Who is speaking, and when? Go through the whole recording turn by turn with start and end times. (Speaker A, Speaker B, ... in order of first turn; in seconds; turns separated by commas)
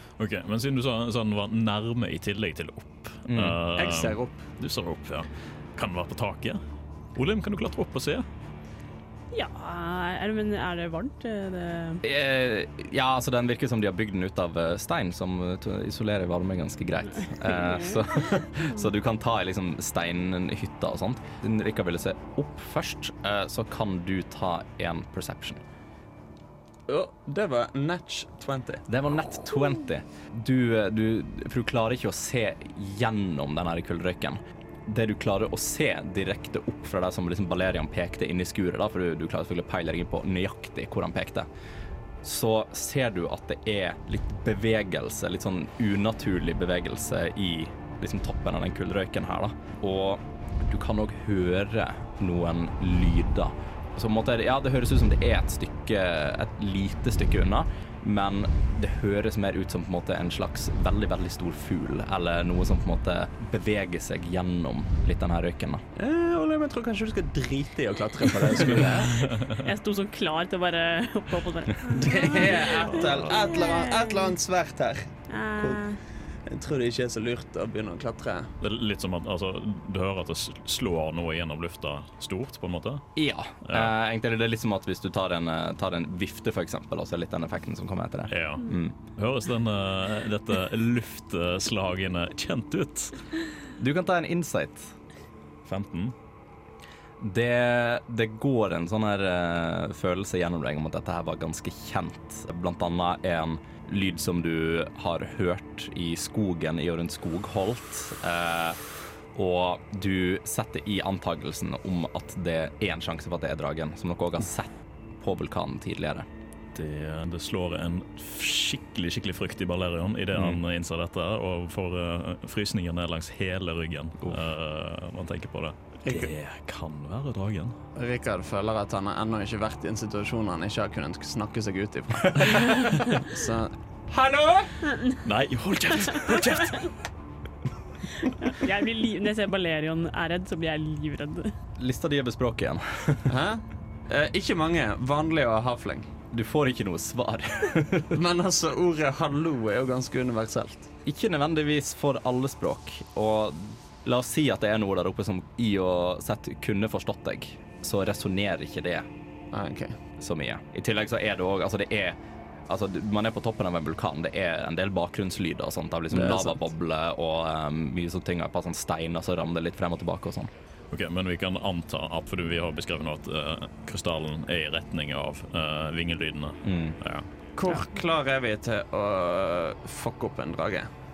Speaker A: 0.2-6.6, Speaker B: 3.3-3.6, Speaker C: 3.7-4.4, Speaker A: 7.1-8.2, Speaker D: 9.3-12.0, Speaker B: 12.0-25.6, Speaker D: 17.5-18.0, Speaker C: 26.9-28.8, Speaker B: 28.9-41.5, Speaker B: 42.2-65.8, Speaker C: 66.0-69.2, Speaker A: 68.6-69.6, Speaker D: 69.4-74.3, Speaker C: 71.9-75.8, Speaker A: 72.2-73.6, Speaker D: 75.3-76.0, Speaker C: 76.5-78.5, Speaker A: 78.6-83.0, Speaker B: 83.2-89.0, Speaker A: 83.6-83.9, Speaker A: 88.3-93.2, Speaker B: 93.8-94.9, Speaker A: 95.7-96.1, Speaker B: 97.2-108.8, Speaker B: 109.3-116.2, Speaker A: 116.7-127.8, Speaker B: 120.3-120.6, Speaker C: 126.0-126.3, Speaker C: 128.0-134.7, Speaker A: 135.2-136.9, Speaker D: 138.2-141.5, Speaker B: 141.8-143.3, Speaker C: 143.3-146.1, Speaker B: 146.3-148.2, Speaker C: 148.1-150.9, Speaker B: 151.0-159.1, Speaker C: 159.5-159.9, Speaker B: 160.2-170.5, Speaker C: 166.1-166.6, Speaker A: 170.9-177.3, Speaker B: 176.6-177.0, Speaker C: 177.6-180.9